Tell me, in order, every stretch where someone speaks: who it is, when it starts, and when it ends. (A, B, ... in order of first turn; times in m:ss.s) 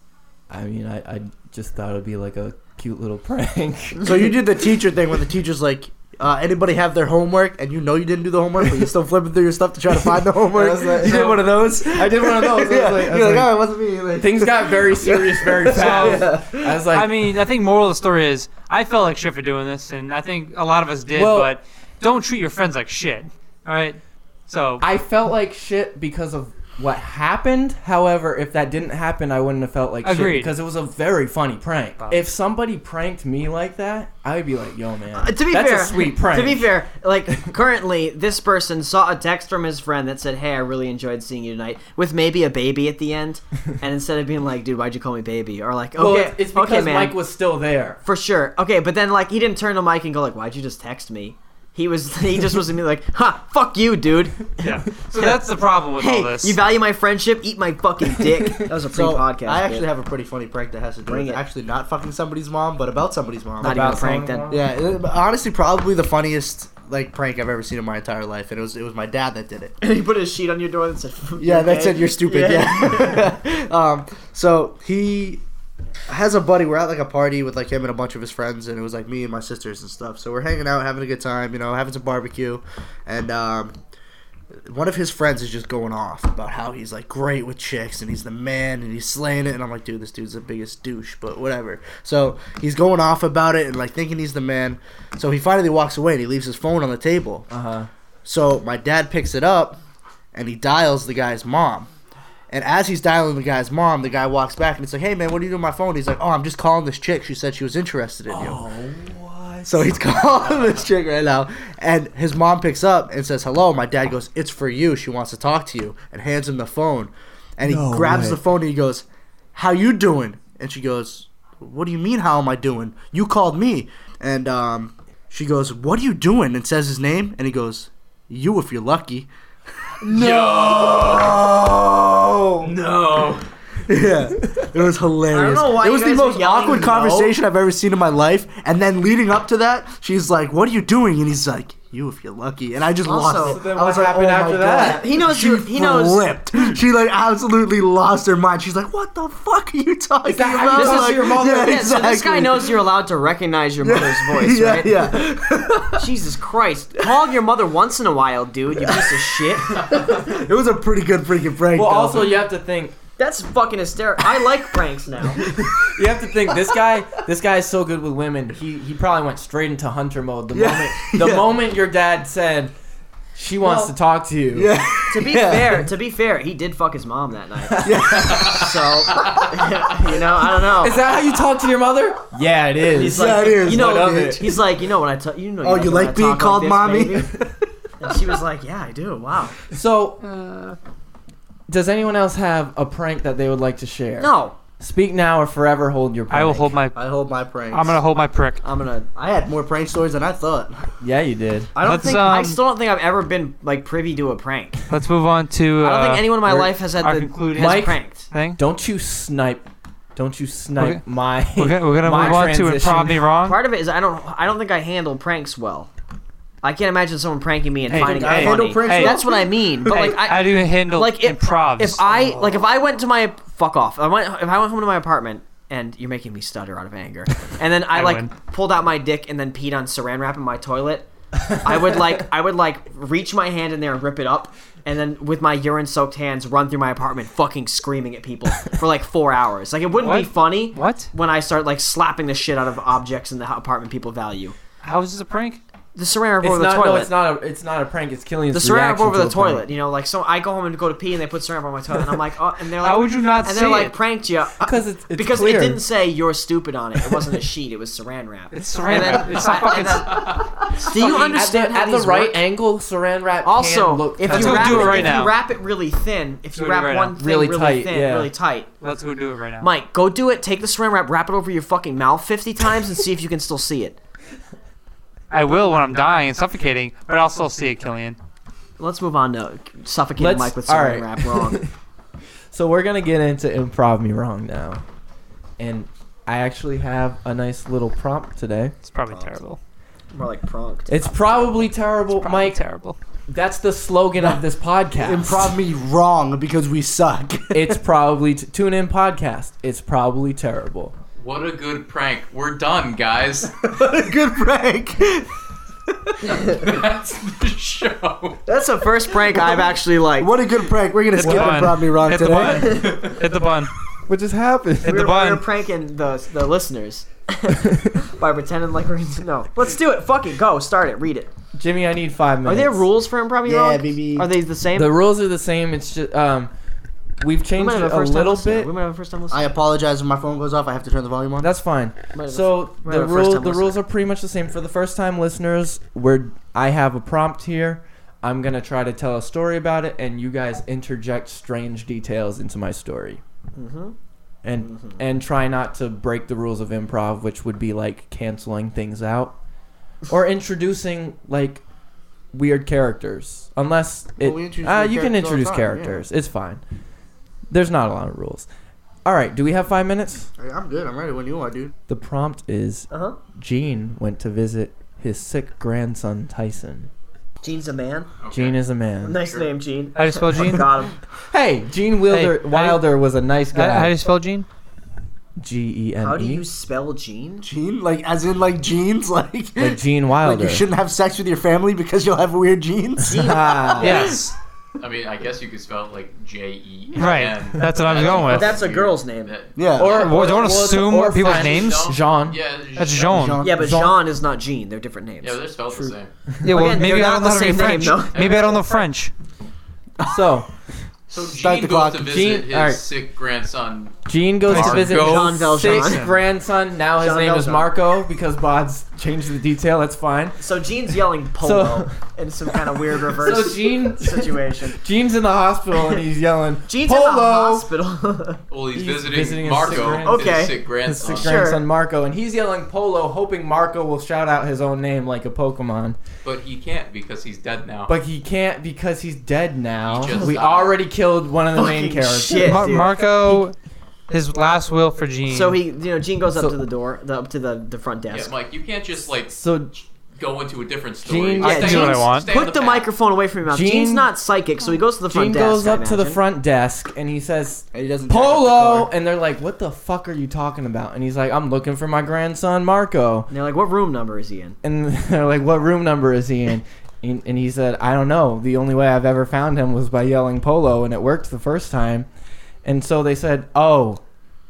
0:00.5-0:04.1 A
0:04.0-0:16.8 B
0:10.5-0:13.5 A
0:14.2-0:17.4 A
0:15.7-0:16.3 C
0:16.9-0:24.8 C
0:21.1-0:21.6 A
0:24.8-0:36.7 A
0:30.0-0:30.5 C
0:35.1-0:47.2 D
0:46.0-0:48.0 A
0:48.0-0:59.9 D
0:54.6-0:56.6 C
0:58.2-0:58.7 A
0:58.9-1:03.8 B
1:01.0-1:01.4 D
1:03.6-1:04.5 D
1:03.6-1:04.6 A
1:04.5-1:09.8 B
1:09.8-1:13.2 D
1:11.4-1:15.4 B
1:16.1-1:23.7 B
1:24.7-1:37.5 B
1:37.5-1:37.9 A
1:38.2-1:39.8 B
1:40.3-1:41.9 B
1:42.5-1:48.6 B
1:48.3-1:50.4 A
1:49.7-2:09.3 B
1:57.6-1:58.4 A
2:10.1-2:10.3 B
2:10.1-2:11.4 E
2:10.1-2:12.7 A
2:10.9-2:11.3 B
2:12.6-2:13.4 E
2:13.8-2:32.8 B
2:15.3-2:17.3 D
2:23.0-2:23.6 D
2:23.3-2:25.0 A
2:24.8-2:26.2 D
2:30.2-2:31.8 A
2:30.7-2:35.3 D
2:33.8-2:36.0 B
2:35.9-2:39.8 D
2:38.8-2:42.4 B
2:41.7-2:43.0 A
2:43.2-2:45.4 D
2:45.4-2:45.7 B
2:45.5-2:52.7 A
2:50.5-2:51.5 B
2:53.3-2:54.7 A
2:53.6-2:53.9 D
2:54.5-2:55.8 B
2:55.1-3:01.0 D
2:57.7-2:58.5 A
2:57.8-2:59.3 B
2:59.2-2:59.4 E
3:00.8-3:04.4 A
3:02.9-3:07.3 D
3:03.0-3:04.6 B
3:05.6-3:08.2 B
3:08.0-3:09.6 D
3:09.7-3:10.2 A
3:10.3-3:10.8 C
3:11.7-3:16.8 A
3:14.2-3:14.6 D
3:16.3-3:17.0 C
3:16.9-3:18.0 B
3:17.7-3:18.6 C
3:18.6-3:19.1 D
3:19.1-3:20.8 B
3:21.0-3:21.7 A
3:21.7-3:24.8 D
3:21.8-3:22.6 C
3:24.9-3:28.6 C
3:25.8-3:28.2 D
3:27.6-3:28.0 A
3:28.6-3:33.2 A
3:31.5-3:33.6 C
3:33.4-3:35.9 D
3:36.6-4:04.6 D
3:37.9-3:39.2 C
3:37.9-3:39.5 B
3:39.8-3:42.0 C
3:42.1-3:42.6 B
3:47.9-3:48.3 C
4:00.0-4:01.1 C
4:04.8-4:05.6 C
4:05.9-4:07.1 D
4:06.4-4:09.6 A
4:08.5-4:22.4 D
4:12.8-4:13.9 C
4:14.6-4:15.8 A
4:18.5-4:20.4 C
4:20.8-4:25.2 A
4:23.4-4:28.7 D
4:24.3-4:25.3 C
4:26.5-4:27.2 C
4:27.1-4:28.3 A
4:28.8-4:29.7 C
4:29.6-4:34.0 D
4:35.3-4:38.2 C
4:38.8-4:41.6 D
4:40.2-4:41.7 A
4:42.5-4:44.8 A
4:45.6-4:48.7 A
4:48.8-4:49.6 C
4:49.1-4:49.4 D
4:50.1-4:51.4 D
4:50.9-4:52.6 A
4:52.2-4:53.0 C
4:53.3-4:55.6 A
4:55.0-4:57.8 B
4:57.5-5:00.9 A
5:01.2-5:03.6 E
5:03.6-5:05.3 B
5:06.3-5:08.4 E
5:08.4-5:10.3 D
5:09.3-5:09.6 B
5:10.2-5:13.0 B
5:11.1-5:13.7 C
5:11.2-5:11.6 A
5:12.6-5:13.1 D
5:14.1-5:15.0 A
5:14.8-5:15.4 C
5:14.8-5:21.3 D
5:21.6-5:22.8 A
5:22.4-5:24.9 D
5:23.4-5:24.3 B
5:24.7-5:26.5 A
5:27.2-5:28.7 A
5:27.5-5:29.5 D
5:29.3-5:31.5 B
5:31.4-5:43.2 A
5:32.1-5:33.8 D
5:43.6-5:43.9 D
5:44.4-5:49.4 A
5:44.6-5:45.0 D
5:50.1-5:51.6 A
5:52.3-5:56.6 A
5:54.2-5:56.0 B
5:57.5-5:58.5 A
5:59.0-6:00.3 A
6:00.4-6:01.7 B
6:01.9-6:06.9 A
6:02.9-6:03.2 D
6:07.4-6:08.1 D
6:08.2-6:08.6 E
6:08.3-6:09.2 A
6:09.0-6:11.0 D
6:09.9-6:10.7 C
6:11.3-6:13.9 A
6:12.1-6:12.8 C
6:13.5-6:14.4 C
6:15.4-6:16.4 A
6:16.0-6:17.5 D
6:17.4-6:24.0 B
6:19.6-6:20.6 A
6:23.0-6:24.2 D
6:23.1-6:24.1 A
6:23.8-6:24.3 C
6:24.8-6:30.4 E
6:27.0-6:28.5 C
6:27.9-6:29.3 D
6:29.6-6:30.2 B
6:29.8-6:31.9 C
6:30.1-6:32.4 A
6:31.1-6:33.1 E
6:32.8-6:33.4 C
6:32.9-6:33.7 B
6:33.4-6:35.4 D
6:33.5-6:34.0 A
6:35.2-6:36.1 E
6:35.7-6:36.5 A
6:36.4-6:39.1 C
6:36.5-6:38.8 D
6:38.2-6:38.5 E
6:40.0-6:40.5 A
6:41.1-6:45.5 E
6:41.1-6:42.2 B
6:42.0-6:42.8 A
6:44.1-6:50.4 A
6:44.5-6:45.0 C
6:44.8-6:46.0 D
6:45.6-6:46.2 C
6:47.0-6:47.7 D
6:50.4-6:54.8 D
6:51.4-6:52.0 A
6:53.1-6:57.7 A
6:56.7-6:58.4 D
6:58.5-7:01.6 E
6:58.7-7:06.0 A
6:59.7-7:01.6 D
7:06.2-7:07.9 E
7:07.9-7:12.6 A
7:09.8-7:10.8 E
7:11.5-7:13.4 D
7:12.4-7:13.5 C
7:14.1-7:15.6 C
7:15.3-7:18.3 D
7:18.1-7:19.3 E
7:19.3-7:19.7 A
7:20.2-7:22.9 E
7:21.0-7:21.8 A
7:21.4-7:22.3 C
7:21.4-7:26.2 D
7:23.4-7:24.1 A
7:25.1-7:33.3 A
7:27.7-7:28.9 B
7:33.3-7:34.6 D
7:34.6-7:42.1 A
7:42.6-7:44.0 A